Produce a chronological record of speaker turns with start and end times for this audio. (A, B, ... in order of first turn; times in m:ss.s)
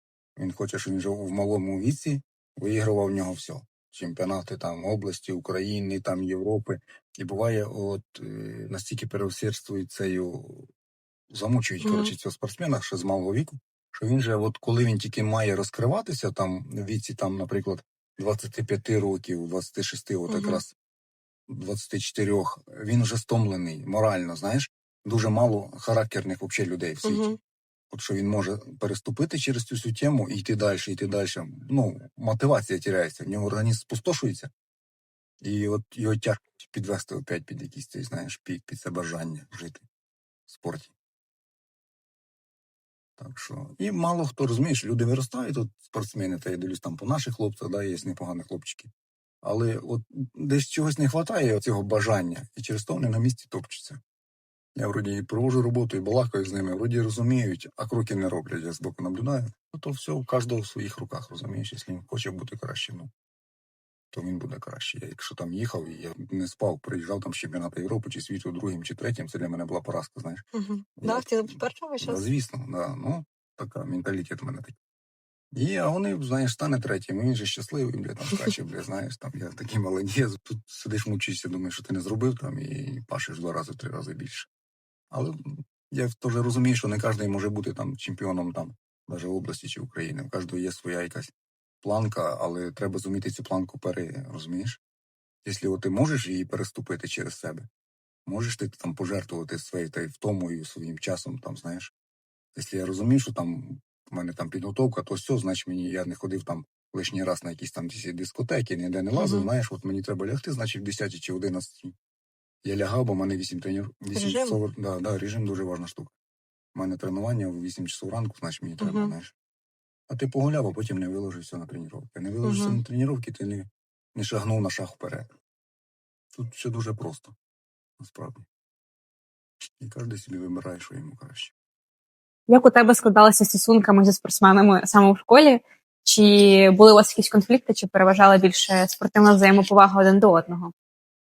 0:00.4-0:10.7 A
0:11.3-0:20.7 A
0:11.8-0:12.1 B
0:20.3-0:20.6 B
0:21.5-0:27.4 A
0:27.0-0:27.4 B
0:27.9-0:34.5 A
0:35.4-0:39.8 A
0:40.5-0:40.9 A
0:43.2-0:48.9 A
0:49.4-0:54.0 A
0:54.8-1:03.1 A
1:04.1-1:10.4 A
1:10.5-1:12.2 B
1:11.0-1:14.8 A
1:15.5-1:24.5 A
1:25.1-1:34.8 A
1:35.4-1:37.7 A
1:38.3-1:41.9 A
1:42.6-1:51.9 A
1:49.2-1:49.5 B
1:52.6-1:56.1 A
1:54.1-1:54.6 B
1:56.7-1:59.3 A
1:58.8-1:59.1 B
2:00.1-2:05.3 A
2:02.4-2:02.8 B
2:06.3-2:07.3 A
2:08.0-2:08.4 A
2:09.8-2:11.5 A
2:12.5-2:20.7 C